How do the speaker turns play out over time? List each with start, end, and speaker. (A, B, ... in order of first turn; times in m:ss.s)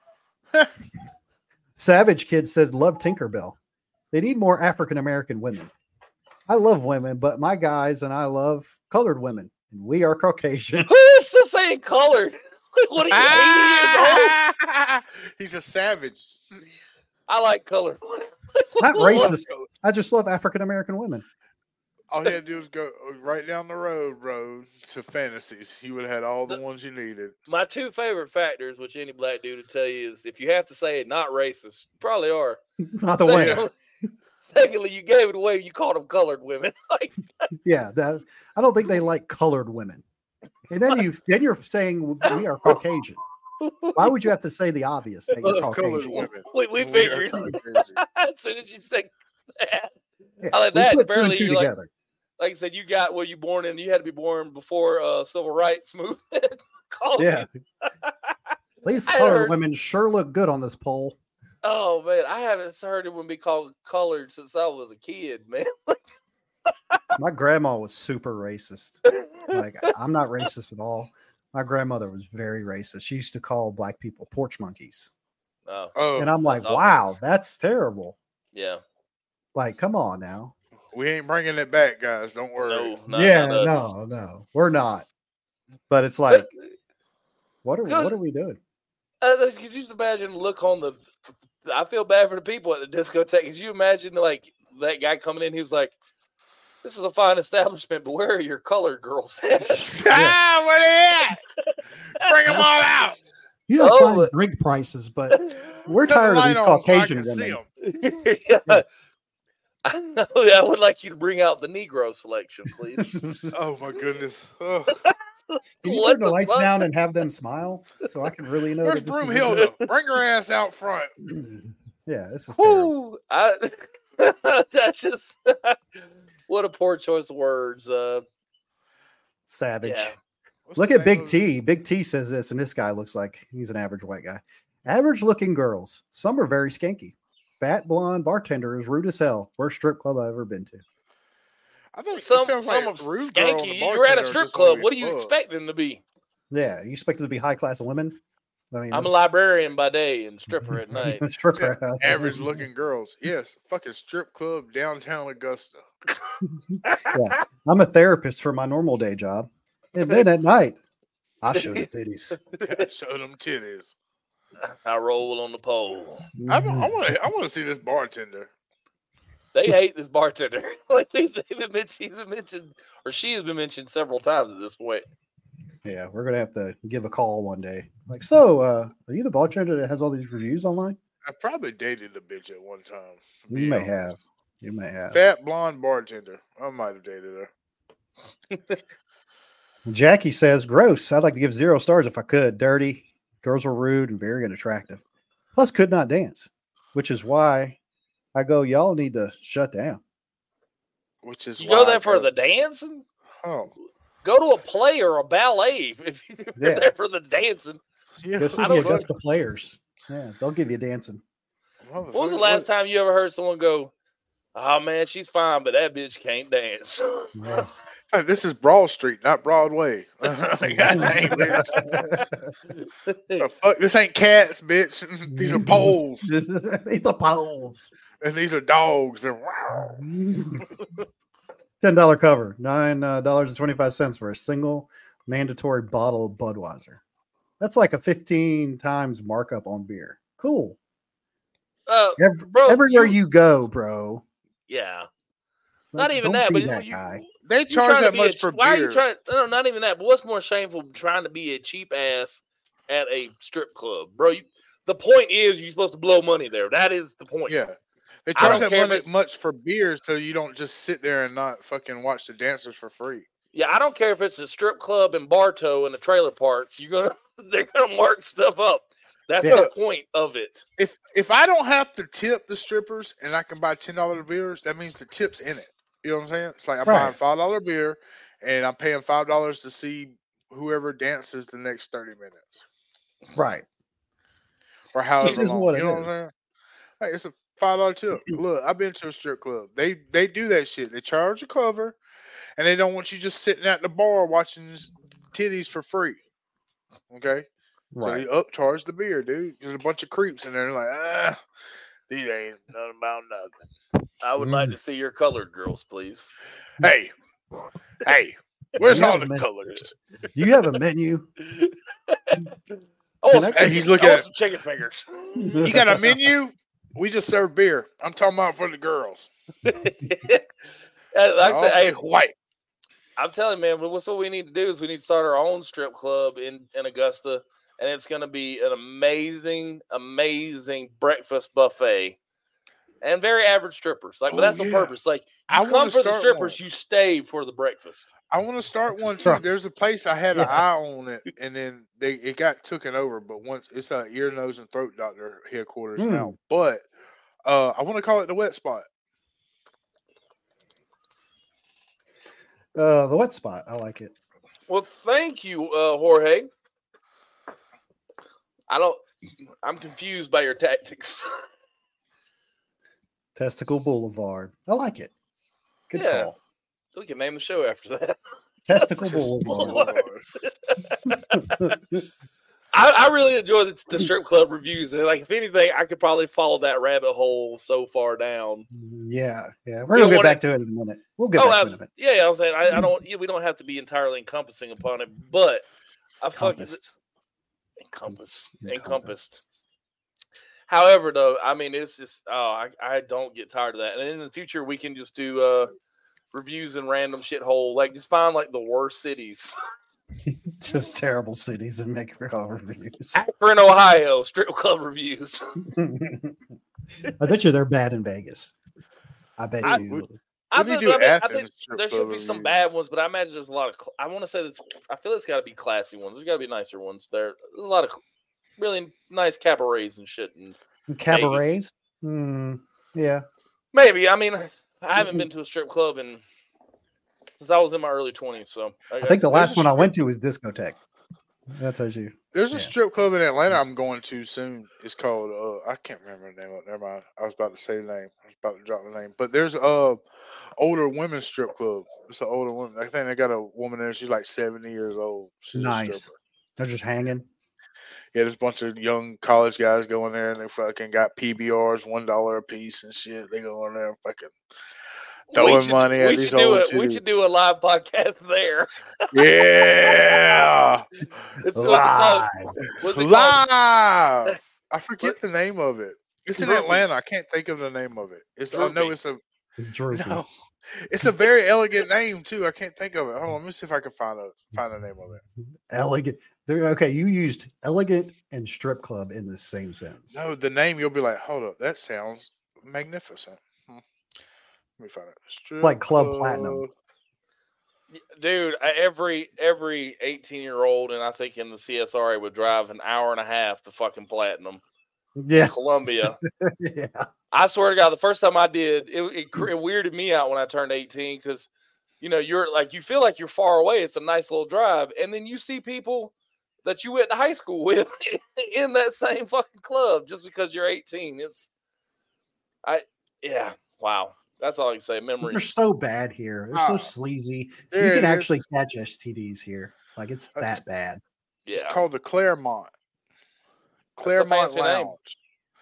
0:01.8-0:03.6 A
0:04.1-0:05.7 A
0:06.5-0:10.9 A
0:10.9-0:14.4 B
0:13.1-0:16.4 C
0:17.3-0:19.3 B
0:18.8-0:21.2 A
0:19.2-0:19.6 C
0:22.1-0:27.3 C
0:27.5-0:32.6 B
0:32.8-0:33.6 A
0:33.2-0:33.7 B
0:34.4-0:37.5 B
0:37.6-0:40.0 A
0:40.7-0:43.2 A
0:43.6-0:44.2 B
0:43.9-0:46.3 A
0:45.4-0:48.0 C
0:46.5-0:49.9 B
0:50.4-0:51.9 A
0:50.5-0:51.7 B
0:52.4-0:58.3 B
0:57.2-0:57.5 A
0:58.8-1:01.2 A
0:59.1-0:59.6 B
1:01.6-1:06.0 B
1:07.2-1:15.1 A
1:09.2-1:09.5 B
1:15.7-1:16.9 B
1:16.0-1:16.3 C
1:16.2-1:18.2 A
1:18.5-1:18.8 B
1:19.5-1:20.5 A
1:20.9-1:23.0 C
1:22.6-1:23.9 B
1:23.1-1:25.0 A
1:25.9-1:26.5 A
1:27.6-1:28.6 A
1:27.8-1:28.2 B
1:29.2-1:31.0 B
1:31.6-1:35.9 B
1:36.8-1:40.0 B
1:39.7-1:41.4 C
1:40.1-1:40.4 A
1:41.7-1:42.6 B
1:42.2-1:43.2 C
1:43.7-1:47.6 A
1:43.8-1:44.3 B
1:45.3-1:45.6 B
1:46.1-1:47.7 C
1:47.8-1:48.8 B
1:49.8-1:53.2 B
1:53.0-1:53.4 A
1:53.5-1:55.0 C
1:55.0-1:56.8 B
1:55.8-1:59.7 A
1:58.8-2:01.1 C
1:59.6-1:59.9 B
2:01.2-2:02.9 A
2:02.6-2:08.2 B
2:09.5-2:10.1 A
2:09.8-2:10.2 B
2:10.7-2:11.4 C
2:10.8-2:20.8 A
2:21.9-2:25.3 C
2:22.1-2:26.0 B
2:26.5-2:28.2 A
2:28.7-2:29.2 A
2:28.9-2:31.2 B
2:30.6-2:32.6 A
2:31.6-2:35.8 C
2:36.7-2:40.8 A
2:36.8-2:37.4 B
2:41.4-2:42.4 A
2:41.5-2:41.8 B
2:42.6-2:42.8 B
2:42.6-2:43.9 C
2:44.7-2:46.3 B
2:46.4-2:46.9 A
2:46.5-2:48.5 C
2:49.5-2:55.0 B
2:55.8-3:01.0 A
3:01.3-3:03.9 C
3:03.5-3:05.2 A
3:05.1-3:07.5 C
3:09.8-3:15.0 A
3:15.5-3:17.8 A
3:18.3-3:20.0 A
3:21.2-3:22.3 C
3:21.6-3:23.0 B
3:23.4-3:23.7 C
3:24.2-3:27.8 B
3:26.6-3:26.9 A
3:28.2-3:29.1 C
3:28.4-3:31.2 A
3:28.6-3:29.0 B
3:31.8-3:32.7 C
3:32.1-3:33.9 B
3:34.5-3:37.3 B
3:37.3-3:37.7 A
3:38.1-3:41.8 C
3:40.7-3:42.5 A
3:40.9-3:41.6 B
3:42.8-3:43.4 B
3:43.4-3:46.3 C
3:45.3-3:47.9 A
3:48.2-3:50.0 C
3:49.7-3:50.6 A
3:51.8-3:57.0 A
3:57.6-4:00.8 A
4:01.9-4:03.2 B
4:02.2-4:04.2 A
4:04.7-4:05.1 B
4:05.9-4:07.2 A
4:06.0-4:17.5 B
4:07.4-4:09.0 C
4:17.5-4:23.2 C
4:18.3-4:19.1 B
4:18.4-4:18.7 A
4:23.5-4:30.6 B
4:29.4-4:29.6 A
4:29.4-4:29.7 C
4:30.8-4:42.6 C
4:36.8-4:37.2 A
4:43.3-4:43.6 A
4:44.9-4:46.3 C
4:45.2-4:46.1 A
4:47.0-4:52.0 C
4:52.6-4:56.2 C
4:57.1-4:57.4 C
4:57.9-4:58.2 A
4:58.0-5:01.4 C
5:02.1-5:03.5 C
5:04.2-5:06.3 B
5:04.4-5:04.8 A
5:06.8-5:07.1 C
5:08.0-5:09.9 C
5:08.8-5:09.4 A
5:10.3-5:11.3 A
5:11.4-5:12.5 B
5:13.2-5:15.6 B
5:13.3-5:13.9 A
5:13.6-5:14.3 C
5:15.4-5:16.0 A
5:15.6-5:19.3 C
5:19.6-5:20.5 B
5:21.1-5:21.9 B
5:21.4-5:22.3 C
5:23.2-5:32.2 B
5:33.0-5:38.1 B
5:34.3-5:34.9 C
5:35.5-5:36.6 C
5:38.3-5:46.8 C
5:40.3-5:40.6 A
5:46.0-5:46.3 A
5:47.4-5:48.8 C
5:52.7-5:54.1 A
5:54.7-5:56.5 B
5:58.7-5:59.0 B
5:59.6-6:01.3 B
6:03.4-6:05.1 A
6:05.9-6:06.4 A
6:05.9-6:06.3 B
6:06.9-6:08.2 B
6:08.6-6:09.8 A
6:08.7-6:11.8 B
6:09.5-6:10.2 C
6:11.5-6:12.0 A
6:12.7-6:18.7 B
6:18.7-6:21.9 A
6:19.9-6:20.4 B
6:21.3-6:25.6 B
6:26.2-6:26.8 B
6:26.4-6:27.0 A
6:27.8-6:29.3 B
6:28.1-6:29.6 A
6:30.7-6:35.7 B
6:36.3-6:39.6 B
6:40.2-6:43.2 A
6:43.1-6:45.4 B
6:45.6-6:46.4 A
6:47.2-6:48.6 A
6:49.4-6:50.1 A
6:49.7-6:52.5 C
6:50.5-6:58.0 B
6:58.6-7:00.6 B
7:00.9-7:03.2 A
7:01.1-7:01.6 B
7:03.7-7:06.2 B
7:05.0-7:05.2 A
7:07.4-7:09.6 B
7:09.0-7:10.8 A
7:09.3-7:09.9 C
7:11.5-7:12.7 A
7:12.3-7:20.0 C
7:20.6-7:26.1 C
7:25.5-7:27.3 A
7:28.1-7:34.3 C
7:35.3-7:39.2 B
7:35.3-7:37.0 C
7:39.1-7:40.9 C
7:41.4-7:42.3 B
7:41.5-7:42.5 A
7:42.8-7:43.4 B
7:42.9-7:49.2 C
7:46.4-7:46.9 A
7:48.5-7:49.0 B
7:49.6-7:50.2 A
7:49.9-7:55.2 C
7:55.7-8:00.2 A
8:00.1-8:03.8 C
8:04.8-8:06.7 C
8:05.6-8:06.6 A
8:07.9-8:14.6 B
8:15.2-8:17.1 A
8:15.3-8:16.2 B
8:17.3-8:21.5 B
8:22.0-8:26.1 B
8:26.6-8:31.5 B
8:32.6-8:35.4 B
8:35.2-8:41.0 A
8:36.5-8:36.9 C
8:37.7-8:38.4 C
8:41.4-8:41.8 B
8:41.5-8:42.7 C
8:44.0-8:45.2 C
8:44.0-8:44.9 B